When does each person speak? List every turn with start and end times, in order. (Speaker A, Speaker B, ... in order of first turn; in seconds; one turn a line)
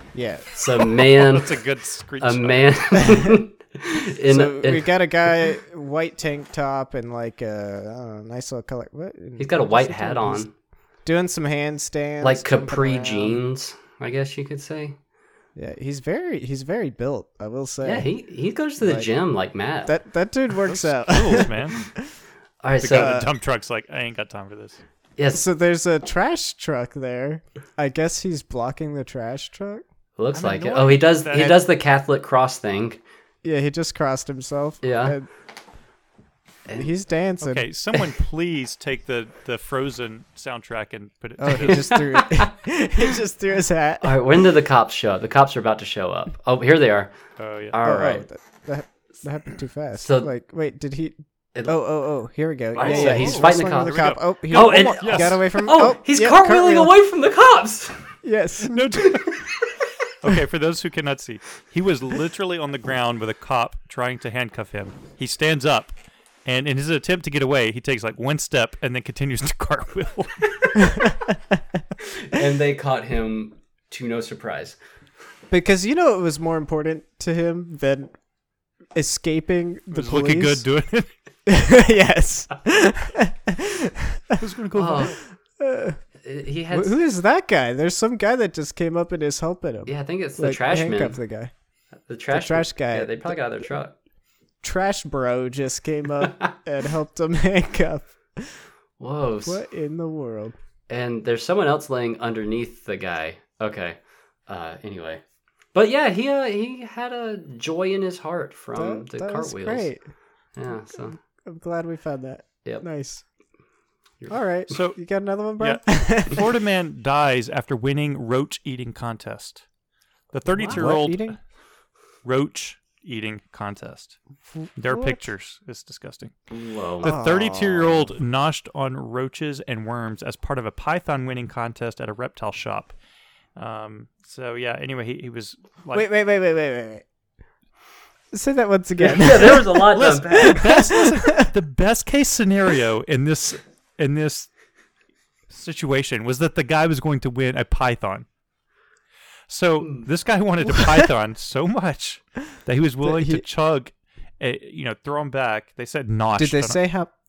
Speaker A: 0.1-0.5
Speaker B: 0.5-1.6
Speaker C: 1.0-3.1
Speaker B: 2.2-4.9
Speaker A: 4.3-10.4
Speaker B: 9.4-10.5
Speaker A: 11.1-13.4
Speaker B: 12.2-15.0
Speaker A: 15.6-18.1
Speaker B: 17.8-19.9
Speaker A: 18.8-19.1
Speaker A: 19.9-22.0
Speaker C: 20.6-21.9
Speaker B: 22.6-23.2
Speaker C: 22.8-24.8
Speaker A: 22.9-23.3
Speaker B: 25.2-25.4
Speaker A: 25.3-29.8
Speaker B: 30.2-33.0
Speaker C: 30.3-31.6
Speaker A: 33.4-35.3
Speaker B: 34.8-35.2
Speaker A: 36.7-37.6
Speaker C: 37.4-42.0
Speaker A: 41.4-44.2
Speaker B: 41.9-42.5
Speaker B: 44.0-47.1
Speaker C: 47.4-47.8
Speaker B: 47.7-48.2
Speaker A: 47.8-56.9
Speaker B: 50.0-50.3
Speaker B: 52.8-58.0
Speaker C: 52.8-55.5
Speaker A: 58.2-58.8
Speaker C: 58.6-59.3
Speaker B: 59.0-59.5
Speaker C: 60.2-65.9
Speaker C: 66.5-71.0
Speaker A: 70.9-71.4
Speaker B: 72.0-74.8
Speaker A: 75.5-78.1
Speaker A: 78.9-80.7
Speaker C: 79.9-81.1
Speaker A: 81.5-84.4
Speaker C: 84.4-85.2
Speaker B: 84.7-85.2
Speaker A: 85.6-86.0
Speaker B: 86.2-87.0
Speaker A: 86.7-91.5
Speaker B: 89.9-91.2
Speaker B: 92.1-94.0
Speaker A: 92.3-93.4
Speaker A: 94.6-98.7
Speaker B: 96.2-96.5
Speaker B: 99.0-99.6
Speaker A: 99.5-100.5
Speaker B: 100.9-105.2
Speaker B: 105.7-109.9
Speaker A: 108.8-110.0
Speaker B: 110.5-111.2
Speaker A: 111.4-113.2
Speaker A: 114.3-116.5
Speaker C: 114.7-115.0
Speaker C: 115.6-119.7
Speaker C: 120.3-121.4
Speaker B: 120.5-120.9
Speaker A: 120.7-121.4
Speaker C: 122.2-124.2
Speaker C: 124.8-126.3
Speaker A: 124.9-125.2
Speaker B: 126.5-127.1
Speaker C: 127.0-132.9
Speaker A: 127.0-128.1
Speaker C: 133.6-136.1
Speaker A: 135.9-137.1
Speaker A: 138.3-141.5
Speaker B: 139.0-140.7
Speaker C: 139.9-144.5
Speaker C: 145.5-148.3
Speaker C: 149.5-156.8
Speaker A: 153.0-153.4
Speaker A: 156.4-157.1